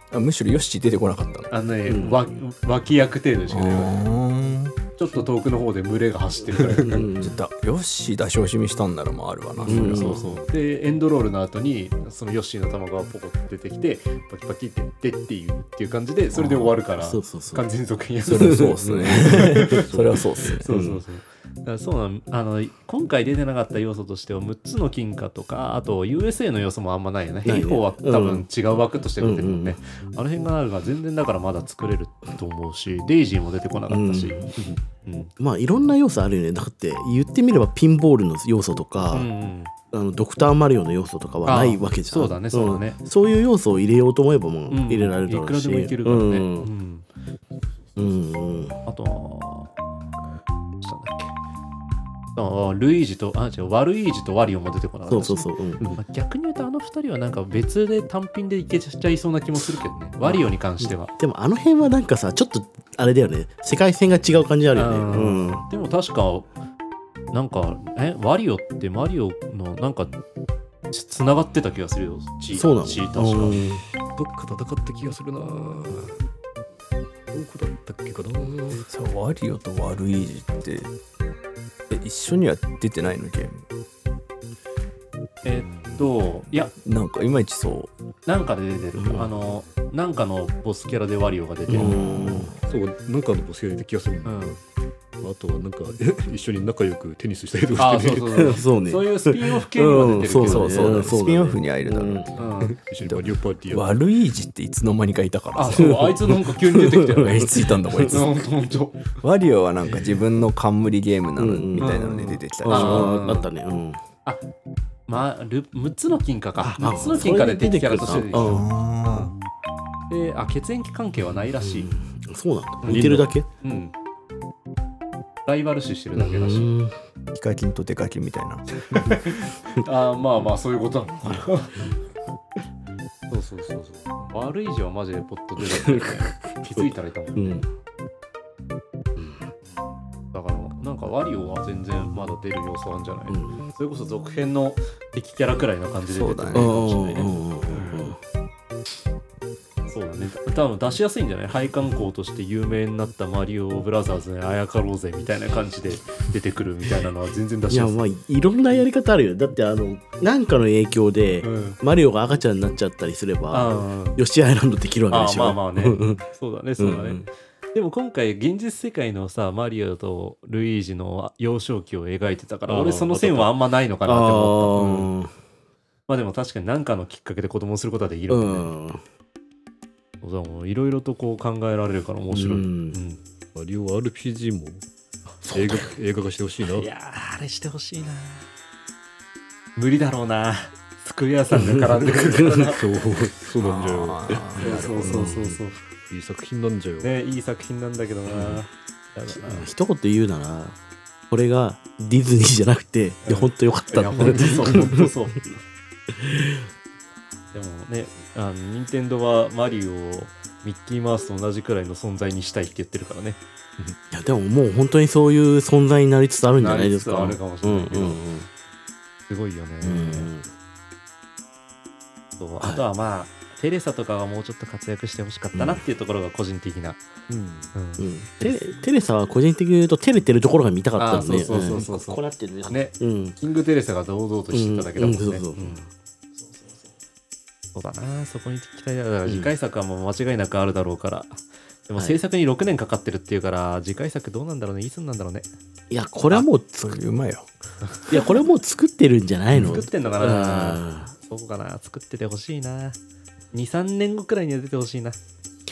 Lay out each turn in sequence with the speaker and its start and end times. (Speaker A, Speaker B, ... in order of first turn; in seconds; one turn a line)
Speaker A: 0.1-1.5
Speaker B: 1.5-4.0
Speaker C: 1.9-2.2
Speaker A: 3.5-4.8
Speaker B: 5.0-7.1
Speaker C: 6.7-7.4
Speaker A: 7.2-10.2
Speaker B: 9.6-19.9
Speaker C: 9.7-10.3
Speaker C: 16.3-17.6
Speaker A: 18.3-21.0
Speaker C: 18.4-19.8
Speaker B: 20.6-35.3
Speaker C: 27.4-28.5
Speaker C: 29.2-29.8
Speaker C: 33.9-34.5
Speaker C: 35.4-39.3
Speaker B: 39.1-39.7
Speaker C: 39.9-46.7
Speaker B: 41.5-43.0
Speaker B: 44.7-47.0
Speaker C: 48.0-48.8
Speaker B: 48.9-49.8
Speaker B: 50.8-51.3
Speaker B: 52.4-61.1
Speaker C: 55.1-55.9
Speaker C: 60.2-65.6
Speaker B: 64.7-66.5
Speaker B: 67.3-70.1
Speaker B: 70.9-73.6
Speaker C: 72.5-73.8
Speaker D: 74.2-76.2
Speaker D: 77.3-78.9
Speaker A: 78.9-80.9
Speaker A: 81.9-83.6
Speaker B: 85.4-86.7
Speaker A: 86.8-87.9
Speaker B: 88.3-92.1
Speaker C: 89.0-89.3
Speaker C: 91.7-92.5
Speaker A: 91.9-92.4
Speaker D: 92.7-94.6
Speaker B: 94.2-94.6
Speaker D: 95.2-98.5
Speaker B: 97.8-101.2
Speaker C: 98.3-102.3
Speaker A: 100.4-102.4
Speaker B: 102.4-102.8
Speaker D: 102.7-104.0
Speaker A: 103.0-106.3
Speaker B: 105.5-109.1
Speaker C: 105.8-108.2
Speaker A: 107.1-108.5
Speaker A: 109.2-113.2
Speaker C: 111.4-114.0
Speaker B: 111.8-113.5
Speaker B: 115.1-118.7
Speaker C: 116.6-118.7
Speaker A: 118.3-119.3
Speaker B: 120.1-121.9
Speaker C: 121.6-123.5
Speaker B: 122.8-123.9
Speaker D: 122.8-123.3
Speaker B: 125.5-126.7
Speaker C: 126.2-126.9
Speaker A: 127.3-128.7
Speaker B: 128.9-131.8
Speaker B: 133.3-137.7
Speaker C: 135.8-136.1
Speaker C: 137.4-137.7
Speaker B: 140.3-148.2
Speaker C: 143.3-143.6
Speaker A: 146.1-146.8
Speaker C: 146.5-148.2
Speaker B: 149.9-158.0
Speaker C: 157.7-166.2
Speaker B: 161.4-161.8
Speaker B: 163.5-164.2
Speaker B: 165.1-175.1
Speaker C: 166.8-167.2
Speaker D: 172.7-173.5
Speaker C: 173.1-173.4
Speaker C: 174.1-175.3
Speaker B: 176.1-178.7
Speaker C: 178.3-179.0
Speaker B: 180.2-183.2
Speaker C: 182.3-183.0
Speaker D: 183.6-184.8
Speaker C: 185.5-185.8
Speaker D: 185.5-186.9
Speaker B: 186.7-188.5
Speaker B: 189.8-192.8
Speaker C: 191.6-192.7
Speaker D: 192.6-194.5
Speaker A: 193.6-195.5
Speaker B: 194.6-195.8
Speaker C: 195.1-195.4
Speaker D: 196.1-197.1
Speaker B: 197.0-199.7
Speaker C: 198.3-198.6
Speaker C: 199.3-200.8
Speaker C: 201.3-205.1
Speaker B: 203.2-205.5
Speaker C: 206.1-206.7
Speaker B: 207.5-213.4
Speaker C: 214.1-218.5
Speaker B: 216.6-218.2
Speaker B: 219.3-220.3
Speaker C: 219.8-220.5
Speaker B: 222.4-227.0
Speaker C: 225.6-225.8
Speaker D: 227.3-227.7
Speaker B: 227.7-228.6
Speaker C: 228.0-233.4
Speaker B: 231.0-235.8
Speaker C: 234.5-235.8
Speaker B: 237.8-245.5
Speaker C: 245.9-247.0
Speaker A: 246.8-247.5
Speaker B: 247.9-248.2
Speaker C: 248.1-251.1
Speaker B: 249.6-253.0
Speaker B: 253.5-255.2